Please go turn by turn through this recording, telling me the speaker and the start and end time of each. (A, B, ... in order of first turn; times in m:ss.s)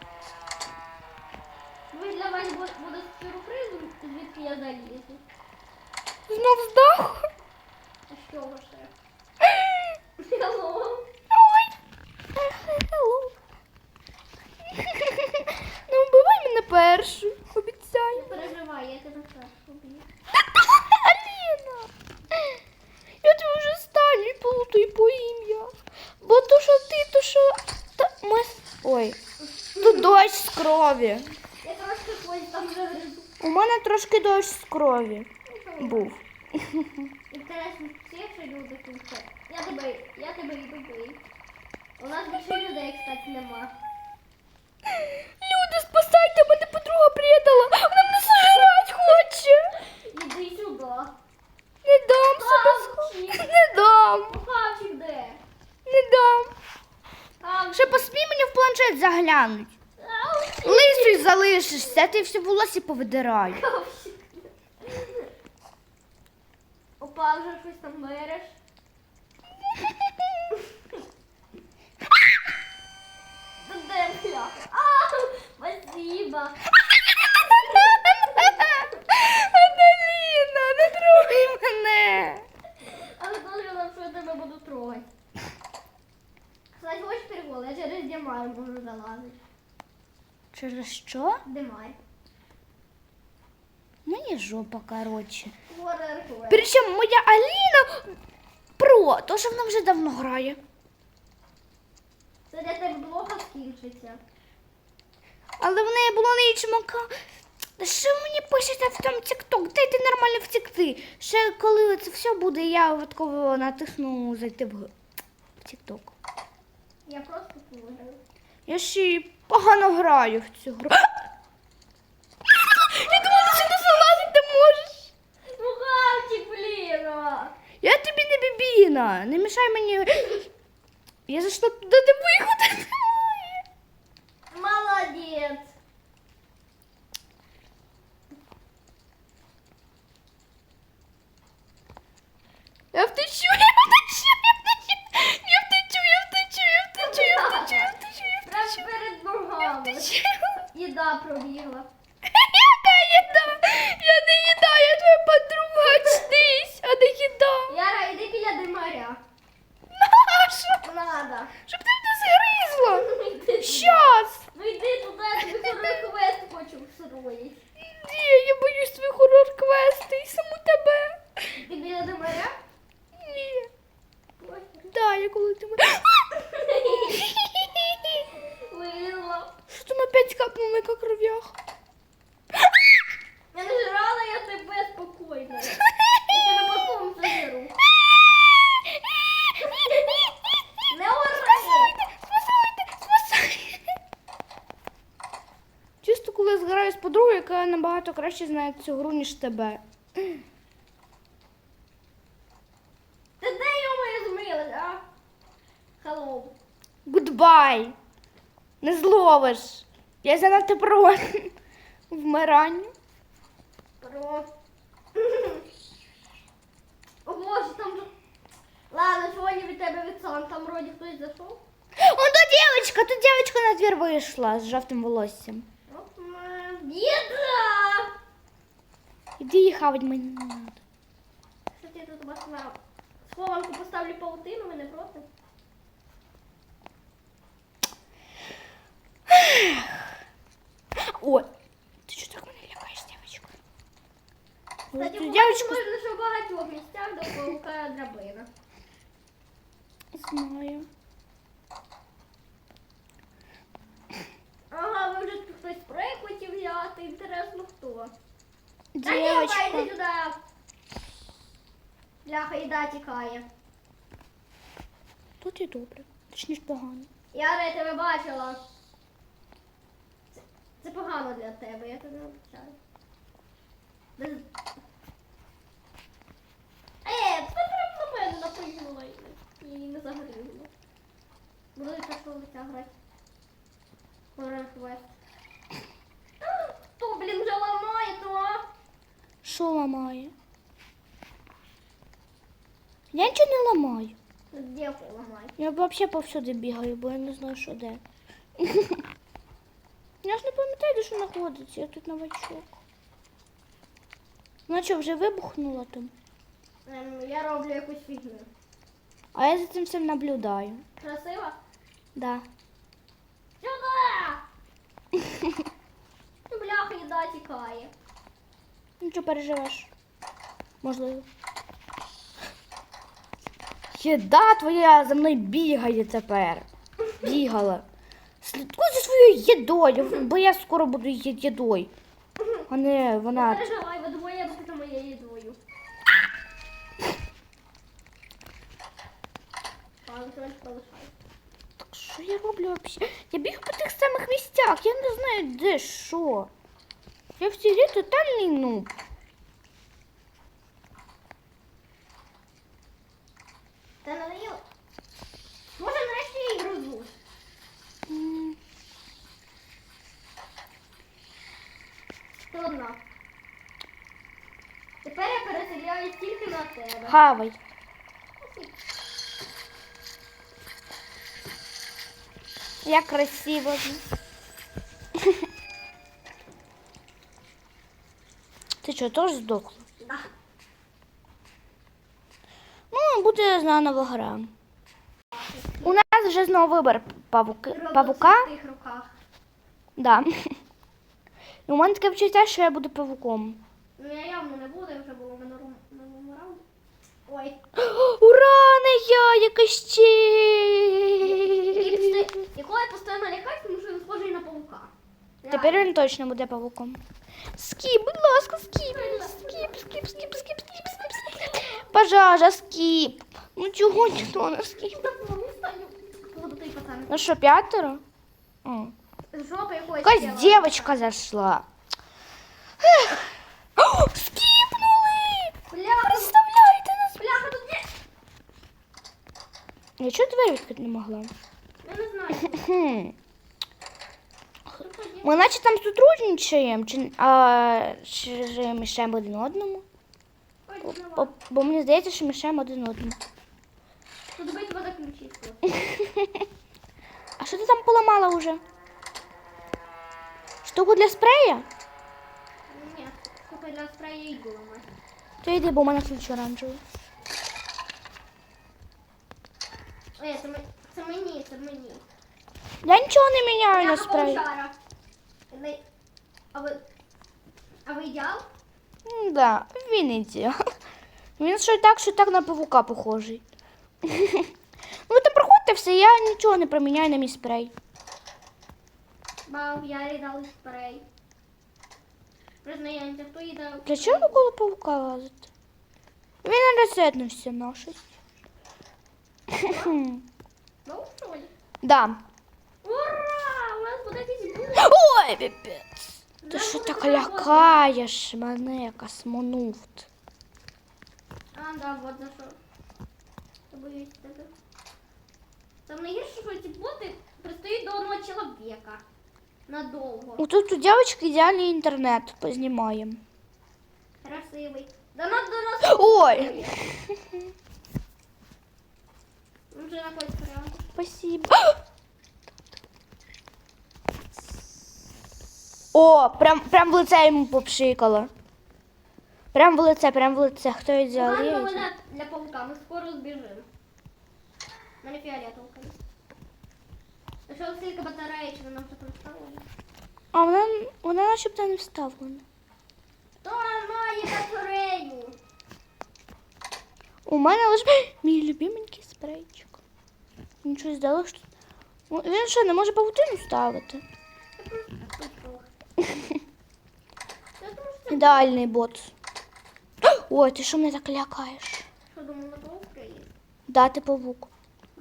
0:01.9-0:05.2 A
0:06.3-0:07.3 B
0:08.1-0:08.9 A
0:09.4-0:09.8 B
0:10.2-0:11.0 A
0:11.3-0:11.7 B
0:12.4-0:13.4 B
0:14.7-0:18.5 B
0:18.1-0:20.1 A
0:20.5-0:22.6 B
0:23.2-0:29.2 B
0:29.6-0:30.1 A
0:29.8-0:31.3 B
0:31.6-0:33.3 A
0:33.4-0:35.3 B
0:35.5-0:36.1 A
0:35.8-0:37.1 B
0:37.3-0:41.2 A
0:42.0-0:43.7 A
0:44.9-0:49.8 B
0:49.8-0:51.1 A
0:51.8-0:54.4 B
0:52.3-0:53.5 A
0:54.3-0:55.4 A
0:55.9-0:56.5 B
0:57.4-0:58.0 A
0:57.7-0:59.7 B
1:00.0-1:01.2 A
1:00.6-1:03.6 B
1:03.5-1:05.3 A
1:07.0-1:08.6 A
1:13.6-1:16.6 A
1:17.2-1:22.4 B
1:17.4-1:18.7 A
1:22.8-1:25.1 A
1:26.8-1:29.4 A
1:30.5-1:31.4 B
1:31.5-1:32.0 A
1:34.1-1:35.6 B
1:35.7-1:36.7 A
1:36.5-1:38.2 B
1:38.8-1:40.6 B
1:42.5-1:44.2 A
1:45.6-1:47.1 B
1:47.8-1:54.9 B
1:55.6-1:56.1 B
1:57.1-1:58.2 A
1:58.7-2:01.1 B
2:02.5-2:05.1 B
2:05.5-2:07.5 A
2:07.8-2:10.5 B
2:11.3-2:13.6 B
2:14.5-2:15.7 A
2:22.9-2:28.8 B
2:27.0-2:30.2 A
2:29.6-2:30.5 B
2:30.7-2:31.9 A
2:32.3-2:37.7 B
2:35.8-2:36.2 A
2:37.7-2:39.2 A
2:39.9-2:40.8 B
2:40.8-2:41.5 A
2:41.7-2:43.1 B
2:42.9-2:47.6 A
2:43.6-2:44.4 B
2:47.8-2:51.6 B
2:51.6-2:52.6 A
2:53.1-2:53.7 B
2:54.4-2:54.9 A
2:54.9-2:56.2 B
2:56.3-2:57.3 A
2:57.2-2:58.2 B
2:58.3-2:59.5 A
2:59.7-3:01.6 B
3:03.5-3:07.8 A
3:08.2-3:10.4 B
3:10.9-3:12.0 A
3:11.3-3:13.8 B
3:16.0-3:20.4 B
3:23.4-3:25.0 A
3:26.0-3:26.6 A
3:27.1-3:28.0 B
3:28.8-3:31.5 B
3:32.1-3:32.9 B
3:34.0-3:34.5 A
3:35.2-3:35.6 A
3:37.2-3:38.1 A
3:38.9-3:41.6 A
3:42.0-3:45.7 B
3:45.9-3:48.1 A
3:49.4-3:50.8 B
3:51.8-3:55.3 A
3:59.3-4:00.1 B
4:01.0-4:01.5 B
4:02.1-4:03.5 B
4:04.9-4:05.8 B
4:04.9-4:08.5 A
4:10.1-4:10.9 B
4:14.7-4:18.1 A
4:19.0-4:19.9 B
4:19.0-4:20.4 A
4:22.2-4:23.5 A
4:25.4-4:27.1 B
4:27.3-4:28.6 A
4:30.3-4:32.8 A
4:34.2-4:34.5 A
4:37.0-4:40.7 A
4:41.8-4:42.9 A
4:44.4-4:45.1 A
4:46.4-4:48.7 A
4:49.4-4:50.3 B
4:53.1-4:54.2 B
4:54.5-4:55.5 A
4:55.6-4:58.0 B
4:58.6-4:59.0 B
5:00.2-5:02.7 B
5:04.7-5:06.1 B
5:06.9-5:08.5 A
5:09.3-5:10.8 B
5:11.0-5:11.6 A
5:12.2-5:12.4 B
5:13.6-5:14.4 A
5:16.5-5:17.9 A
5:19.0-5:19.9 B
5:20.8-5:21.3 B
5:23.9-5:26.7 B
5:27.2-5:27.8 B
5:28.4-5:31.9 B
5:32.7-5:33.7 B
5:33.3-5:35.6 A
5:40.1-5:41.1 A
5:41.8-5:46.5 B
5:47.4-5:48.9 B
5:54.0-5:54.6 A
5:55.7-5:57.1 A
5:58.1-5:58.6 B
6:02.5-6:03.0 A
6:05.0-6:07.2 A
6:07.1-6:07.6 B
6:08.4-6:08.7 A
6:12.8-6:14.0 B
6:18.8-6:19.8 B
6:20.0-6:20.3 A
6:22.9-6:24.5 B
6:25.3-6:26.0 A
6:25.8-6:28.5 B
6:27.7-6:29.1 A
6:30.0-6:30.5 B
6:31.7-6:33.6 B
6:34.0-6:36.6 A
6:37.3-6:37.6 A
6:37.8-6:42.2 B
6:41.2-6:44.9 A
6:45.4-6:45.9 A
6:45.5-6:47.0 B
6:47.6-6:55.0 B
6:48.8-6:50.1 A
6:51.4-6:51.8 A
6:54.8-6:57.3 A
6:57.1-6:58.0 B
6:58.6-6:58.9 B
6:59.3-7:01.0 A
7:00.0-7:01.7 B
7:02.8-7:03.3 B
7:03.8-7:07.6 B
7:05.7-7:06.4 A
7:07.2-7:07.9 A
7:10.0-7:11.3 B
7:11.8-7:12.8 A
7:12.5-7:13.2 B
7:14.8-7:15.4 A
7:15.2-7:19.8 B
7:20.7-7:21.3 A
7:20.8-7:23.2 B
7:24.4-7:25.7 A
7:25.8-7:26.5 B
7:27.4-7:28.6 B
7:30.6-7:31.7 B
7:32.7-7:34.9 A
7:35.4-7:36.8 B
7:40.2-7:42.0 A
7:42.8-7:44.4 B
7:43.7-7:44.8 A
7:45.5-7:45.8 A
7:46.5-7:46.8 A
7:47.8-7:48.4 A
7:49.0-7:50.6 B
7:51.4-7:53.4 B
7:54.0-7:54.5 B
7:55.1-7:57.7 B
7:59.5-8:01.0 A
8:02.6-8:04.4 A
8:03.9-8:05.5 B
8:06.4-8:08.1 B
8:09.5-8:10.2 B
8:09.6-8:10.0 A
8:10.8-8:11.5 A
8:11.8-8:12.2 B
8:12.8-8:14.9 A
8:14.8-8:20.1 B
8:16.4-8:17.9 A
8:21.5-8:22.6 A
8:23.7-8:24.5 A
8:25.9-8:29.0 A
8:29.7-8:30.5 A
8:30.4-8:33.2 B
8:34.2-8:36.8 A
8:35.8-8:37.4 B
8:39.7-8:40.9 A
8:41.0-8:41.8 B
8:45.9-8:48.3 B
8:49.5-8:51.9 B
8:51.1-8:53.7 A
8:55.0-8:56.0 A
8:57.5-8:59.6 A
9:00.3-9:02.4 B
9:03.4-9:05.4 A
9:07.3-9:09.8 B
9:10.6-9:11.4 B
9:12.1-9:14.0 B
9:14.6-9:15.7 A
9:17.6-9:18.5 A
9:18.1-9:19.1 B
9:20.0-9:21.9 B
9:22.1-9:23.3 A
9:23.7-9:24.5 B